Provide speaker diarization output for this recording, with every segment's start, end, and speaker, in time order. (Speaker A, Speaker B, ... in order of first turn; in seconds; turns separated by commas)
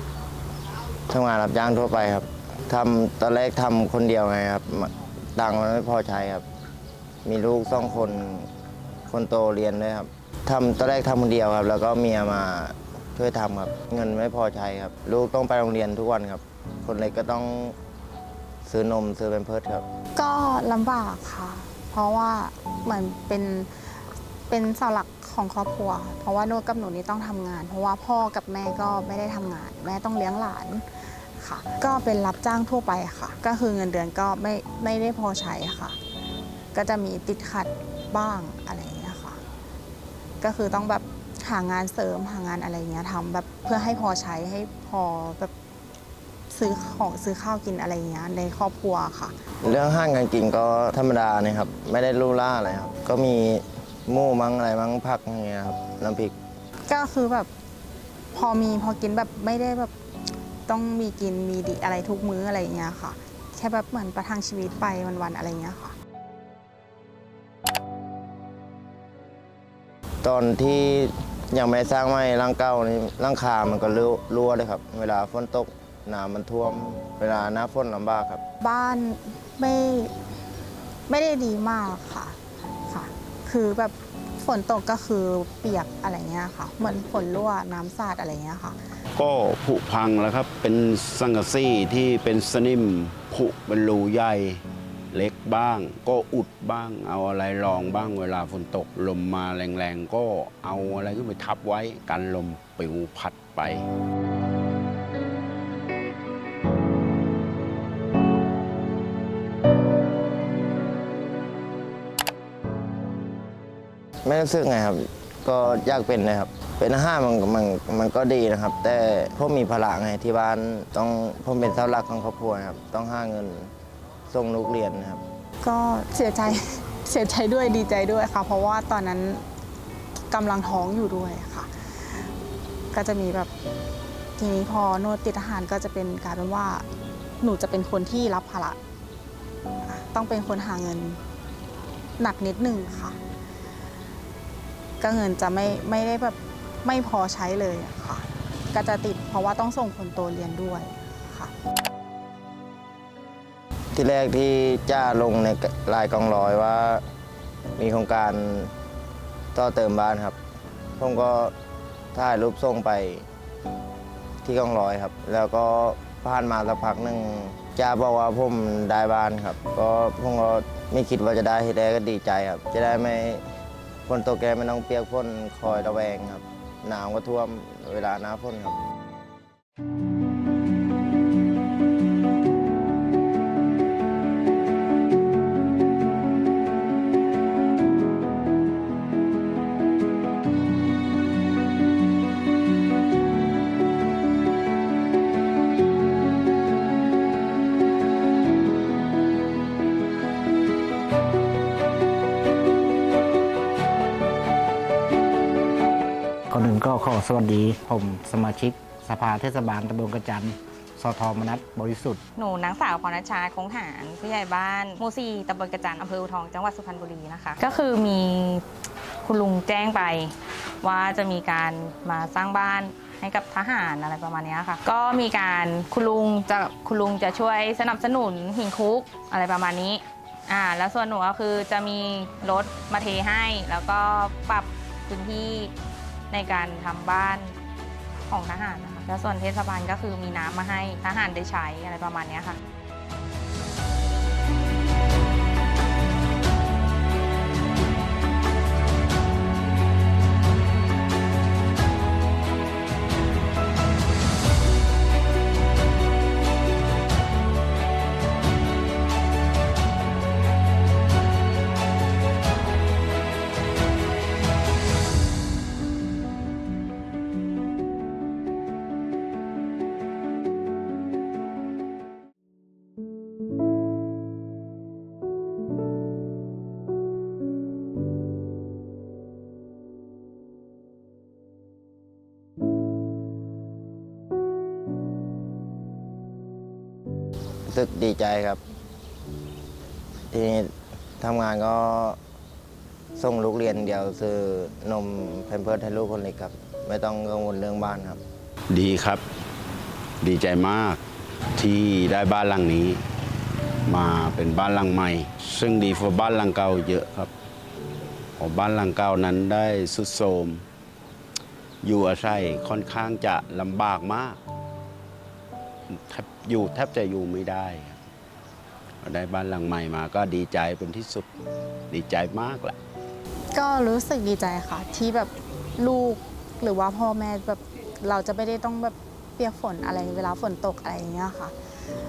Speaker A: 1.1-6.4, Speaker A: 7.2-8.5, Speaker A: 9.1-17.8, Speaker A: 18.6-19.8, Speaker B: 20.1-23.9, Speaker B: 24.5-30.8, Speaker B: 31.4-36.0, Speaker B: 36.7-39.4, Speaker B: 40.4-45.5, Speaker B: 46.5-49.4, Speaker A: 49.6-56.3, Speaker B: 56.9-57.5, Speaker B: 58.3-59.9, Speaker B: 60.7-65.9, Speaker A: 70.2-78.4, Speaker B: 78.6-80.1, Speaker B: 81.1-82.4, Speaker B: 82.9-88.8, Speaker C: 89.1-103.8, Speaker A: 114.2-123.7, Speaker A: 124.3-125.2, Speaker B: 125.6-129.4, Speaker B: 130.3-132.3, Speaker B: 132.9-133.5, Speaker B: 134.4-136.8, Speaker B: 137.4-138.8, Speaker B: 139.8-141.2, Speaker B: 142.2-143.2, Speaker B: 145.0-151.5, Speaker A: 153.9-157.0, Speaker A: 157.8-158.7, Speaker A: 159.5-160.3, Speaker A: 161.0-161.5, Speaker A: 162.1-163.2, Speaker A: 164.4-173.4, Speaker A: 174.1-178.8, Speaker D: 206.5-212.2, Speaker E: 212.3-218.6, Speaker E: 219.2-235.7, Speaker E: 236.3-237.5, Speaker E: 238.3-242.6, Speaker A: 287.7-288.6, Speaker A: 290.3-292.2, Speaker A: 293.1-298.2, Speaker C: 298.7-299.2, Speaker C: 300.2-301.0, Speaker C: 301.6-303.0, Speaker C: 303.9-307.3, Speaker C: 308.4-310.6, Speaker C: 311.8-314.4, Speaker C: 315.9-318.0, Speaker C: 319.0-321.3, Speaker C: 321.9-322.8, Speaker B: 323.5-331.5